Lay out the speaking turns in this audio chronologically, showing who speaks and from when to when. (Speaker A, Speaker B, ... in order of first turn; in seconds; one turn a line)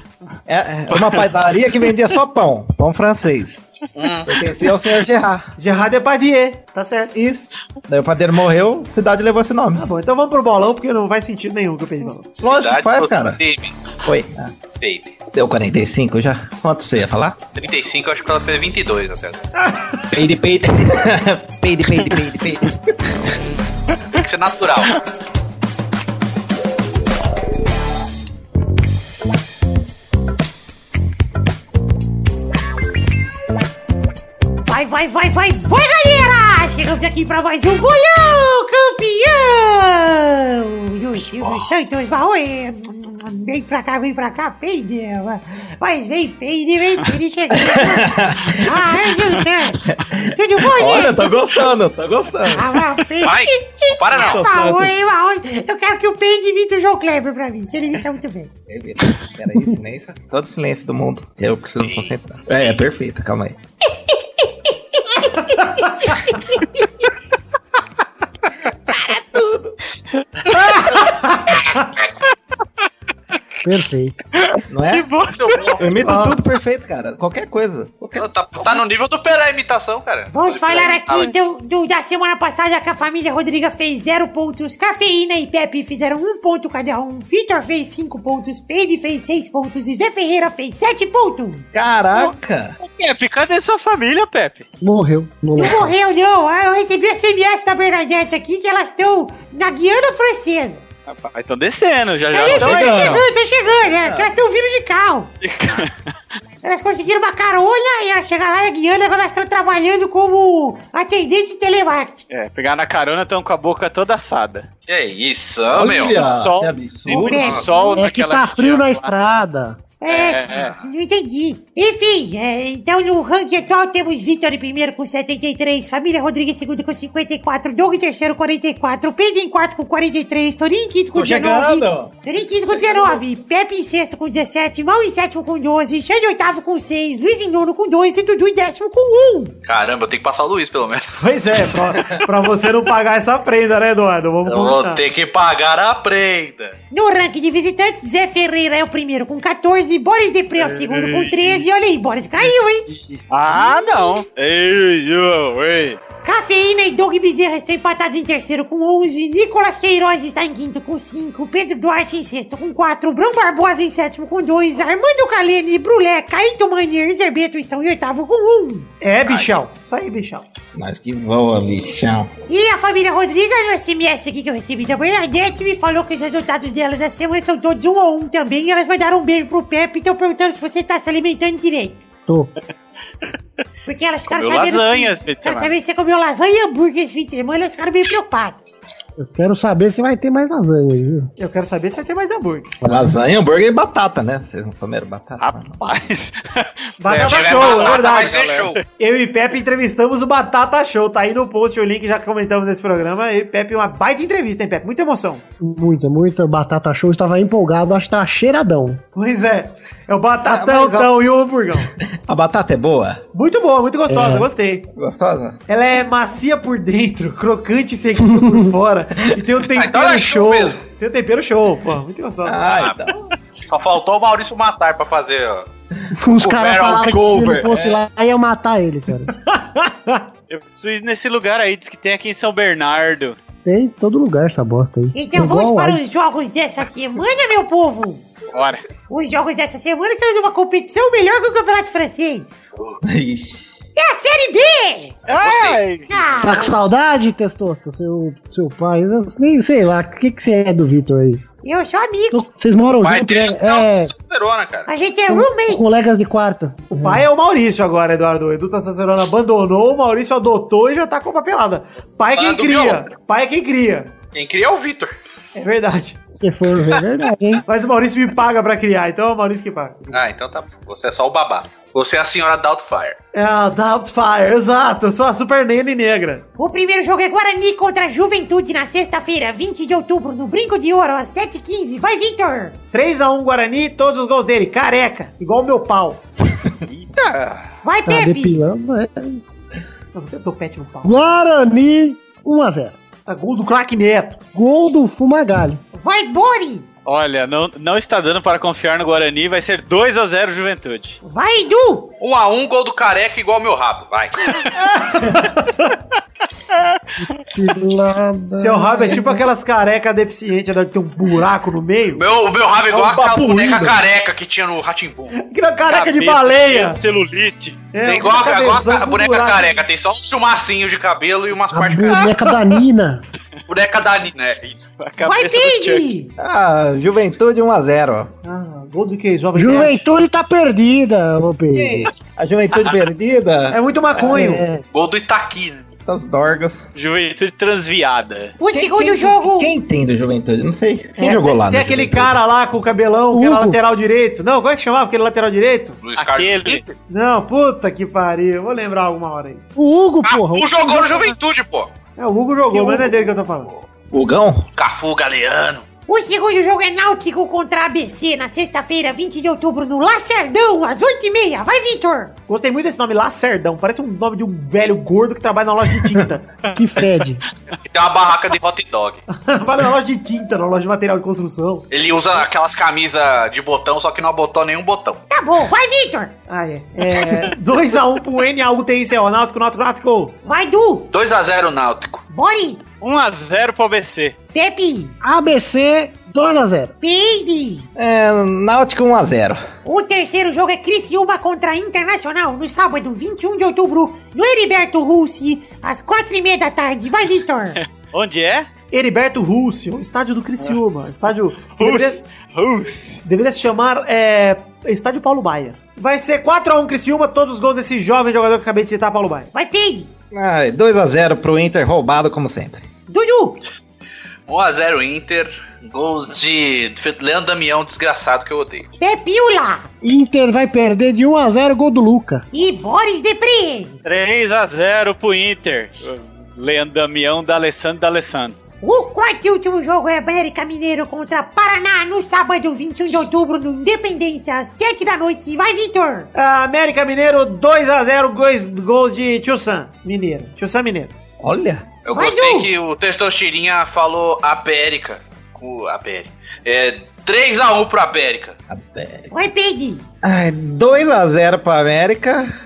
Speaker A: 0.5-3.7
Speaker B: 3.9-4.3
Speaker A: 4.2-5.5
Speaker C: 5.6-7.1
Speaker A: 7.1-9.9
Speaker C: 9.7-12.3
Speaker B: 12.4-13.8
Speaker A: 12.4-13.4
Speaker A: 14.0-14.5
Speaker B: 14.8-15.2
Speaker A: 15.3-17.4
Speaker B: 17.6-19.4
Speaker C: 19.6-20.0
Speaker A: 20.1-22.8
Speaker B: 24.1-25.0
Speaker D: 34.6-51.5
Speaker A: 47.5-48.9
Speaker A: 49.9-52.8
Speaker D: 52.4-58.5
Speaker B: 53.2-54.4
Speaker A: 54.1-55.0
Speaker A: 58.7-63.6
Speaker B: 61.8-62.1
Speaker C: 65.8-66.1
Speaker A: 68.9-69.7
Speaker C: 70.5-71.9
Speaker E: 73.6-74.2
Speaker F: 74.4-75.0
Speaker A: 74.7-75.2
Speaker B: 75.4-75.8
Speaker A: 75.7-78.8
Speaker C: 76.0-76.4
Speaker B: 78.2-81.3
Speaker D: 80.3-91.7
Speaker A: 91.7-92.7
Speaker F: 92.1-94.7
Speaker E: 94.8-95.9
Speaker D: 95.5-100.8
Speaker F: 101.1-103.3
Speaker D: 102.3-105.3
Speaker A: 102.4-103.3
Speaker F: 105.4-105.9
Speaker D: 106.6-112.2
Speaker F: 112.3-114.7
Speaker B: 114.9-116.2
Speaker A: 115.7-117.7
Speaker F: 116.1-119.1
Speaker D: 117.1-118.0
Speaker B: 117.1-117.9
Speaker E: 118.0-119.9
Speaker D: 120.0-139.5
Speaker B: 120.1-120.8
Speaker F: 120.1-120.7
Speaker A: 131.1-132.1
Speaker A: 132.7-133.2
Speaker B: 139.6-141.6
Speaker C: 141.2-145.0
Speaker B: 144.4-146.7
Speaker D: 146.9-152.9
Speaker F: 150.6-151.6
Speaker F: 152.9-156.0
Speaker D: 156.2-168.9
Speaker C: 169.0-170.4
Speaker B: 169.2-169.5
Speaker A: 170.7-172.3
Speaker D: 172.5-182.0
Speaker E: 182.3-182.5
Speaker D: 183.8-188.6
Speaker F: 184.3-185.7
Speaker E: 189.2-191.3
Speaker C: 191.4-192.7
Speaker A: 192.8-195.8
Speaker E: 192.8-193.1
Speaker F: 195.4-198.8
Speaker C: 197.0-198.4
Speaker B: 197.1-198.8
Speaker C: 199.0-205.4
Speaker E: 205.6-209.0
Speaker C: 209.1-211.9
Speaker A: 210.4-211.2
Speaker A: 212.0-213.2
Speaker C: 213.3-214.8
Speaker E: 214.1-214.4
Speaker A: 214.9-215.6
Speaker C: 215.7-222.6
Speaker B: 219.7-220.8
Speaker A: 222.4-223.2
Speaker B: 222.7-223.0
Speaker B: 223.6-225.7
Speaker E: 226.1-229.3
Speaker B: 226.4-227.9
Speaker C: 229.3-230.2
Speaker F: 230.5-233.3
Speaker E: 233.6-236.0
Speaker D: 235.1-238.3
Speaker F: 238.5-238.8
Speaker D: 239.1-242.5
Speaker A: 243.0-243.8
Speaker D: 243.9-245.2
Speaker F: 245.3-246.1
Speaker B: 245.3-245.8
Speaker D: 246.1-246.8
Speaker E: 246.4-251.4
Speaker D: 251.6-252.4
Speaker E: 252.3-254.1
Speaker B: 253.0-254.9
Speaker D: 254.9-255.8
Speaker E: 255.3-257.2
Speaker C: 256.9-264.1
Speaker B: 262.3-263.1
Speaker B: 264.3-265.1
Speaker C: 265.6-266.2
Speaker E: 266.3-267.6
Speaker C: 267.7-270.2
Speaker B: 270.1-273.2
Speaker C: 273.3-276.4
Speaker D: 276.6-282.8
Speaker C: 282.9-286.2
Speaker B: 287.3-287.6
Speaker D: 287.8-288.6
Speaker E: 288.1-289.4
Speaker C: 290.1-291.1
Speaker E: 291.0-292.9
Speaker C: 293.2-294.4
Speaker E: 294.5-295.8
Speaker D: 295.9-296.9
Speaker F: 297.1-301.2
Speaker D: 301.2-302.1
Speaker B: 302.2-304.6
Speaker C: 304.8-305.9
Speaker E: 307.2-309.4
Speaker C: 308.6-312.2
Speaker B: 312.1-316.3
Speaker C: 312.9-314.0
Speaker C: 315.3-317.0
Speaker F: 316.1-317.8
Speaker C: 317.9-319.7
Speaker B: 318.0-322.3
Speaker E: 321.7-323.2
Speaker B: 323.7-324.9
Speaker F: 325.0-326.1
Speaker D: 325.2-326.3
Speaker A: 326.4-328.3
Speaker C: 328.4-330.1
Speaker E: 329.5-332.1
Speaker A: 331.7-333.8
Speaker C: 333.7-334.6
Speaker E: 334.2-334.8
Speaker B: 334.9-335.8
Speaker A: 336.1-336.9
Speaker F: 336.9-338.6
Speaker D: 338.6-339.7
Speaker A: 338.7-342.4
Speaker C: 341.2-346.0
Speaker E: 343.3-343.8
Speaker B: 346.0-346.9
Speaker F: 346.2-346.9
Speaker C: 347.1-349.6
Speaker E: 349.8-351.2
Speaker B: 350.2-351.9
Speaker C: 352.2-353.7
Speaker A: 352.7-353.1
Speaker A: 354.1-354.7
Speaker B: 354.8-355.8
Speaker D: 356.1-362.3
Speaker C: 362.5-366.4
Speaker E: 366.7-367.4
Speaker B: 367.8-369.2
Speaker C: 369.3-371.9
Speaker B: 371.9-375.2
Speaker D: 375.3-376.3
Speaker C: 376.5-380.4
Speaker D: 380.4-381.1
Speaker B: 381.1-382.2
Speaker D: 382.3-382.8
Speaker F: 383.0-384.4
Speaker D: 384.5-385.1
Speaker E: 385.2-386.9
Speaker D: 387.0-387.9
Speaker A: 387.9-389.6
Speaker D: 389.8-397.8
Speaker F: 397.8-398.7
Speaker C: 398.9-402.2
Speaker F: 401.8-403.2
Speaker C: 403.2-409.5
Speaker D: 409.5-410.1
Speaker A: 410.3-412.9
Speaker D: 413.1-413.6
Speaker B: 414.5-418.9
Speaker D: 419.0-419.9
Speaker E: 420.0-422.4
Speaker D: 422.5-424.0
Speaker F: 424.0-428.6
Speaker D: 428.8-436.3
Speaker C: 436.3-441.1
Speaker A: 441.4-441.9
Speaker B: 442.1-448.5
Speaker D: 442.1-442.7
Speaker A: 448.7-449.3
Speaker D: 449.3-450.0
Speaker A: 450.2-452.5